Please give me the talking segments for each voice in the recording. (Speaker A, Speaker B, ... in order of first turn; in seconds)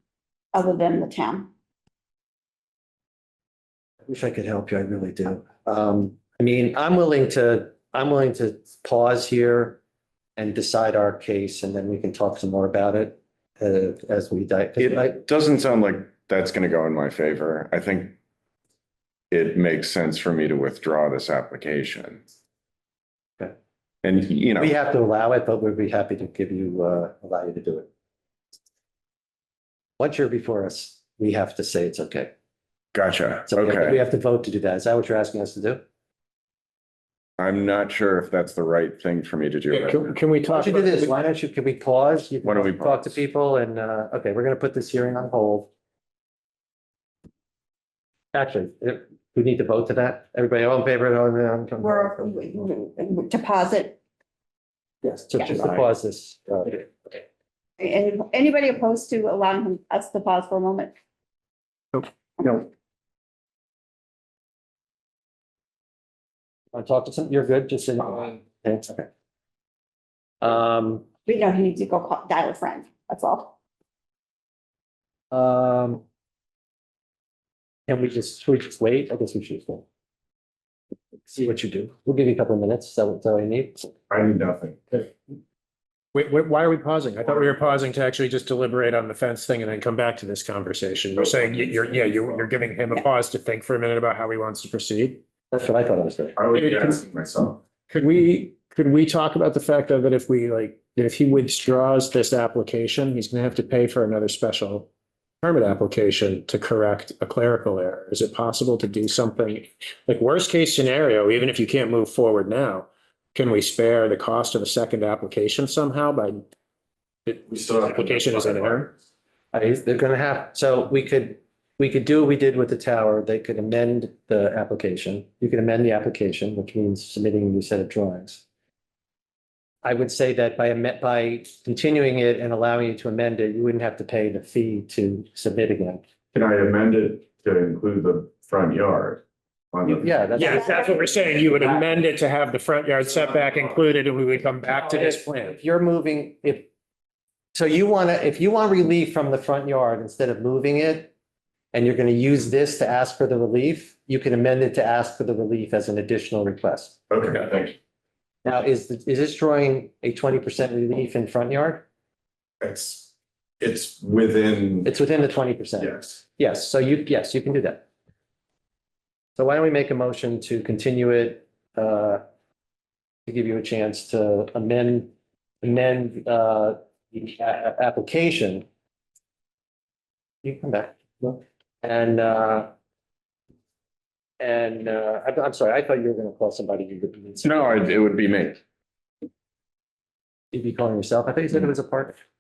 Speaker A: 0.5-1.5, 51.8-54.0, 57.8-60.9, 62.4-62.6, 71.2-73.5, 140.5-141.3
Speaker B: 4.1-9.8, 10.4-15.2, 24.6-27.9, 30.0-32.3, 33.5-35.8, 40.5-45.7, 48.3-52.5, 55.0-57.2, 66.7-69.1, 70.4-71.1, 75.3-76.0, 77.9-79.8, 81.3-83.9, 95.5-96.4, 119.5-128.4, 129.8-136.0, 139.9-141.9, 144.7-146.7, 147.5-151.1, 151.7-157.0, 158.4-161.8, 164.8-167.8, 169.4-172.2, 173.3-175.1, 175.6-178.7, 180.4-182.7, 184.4-187.9, 190.5-192.2
Speaker C: 14.8-18.2, 19.3-22.2, 24.0-24.8, 32.9-34.0, 37.4-40.1, 42.4-43.1, 55.5-55.8, 84.1-85.1, 91.2-92.5, 96.4-97.6, 117.4-118.9, 136.3-140.6, 157.1-157.8, 162.6-164.9, 165.8-166.2, 187.4-188.6
Speaker D: 39.7-41.1, 86.1-95.2, 96.5-97.0, 97.9-104.9, 105.4-116.4, 117.3-118.9, 140.3-145.3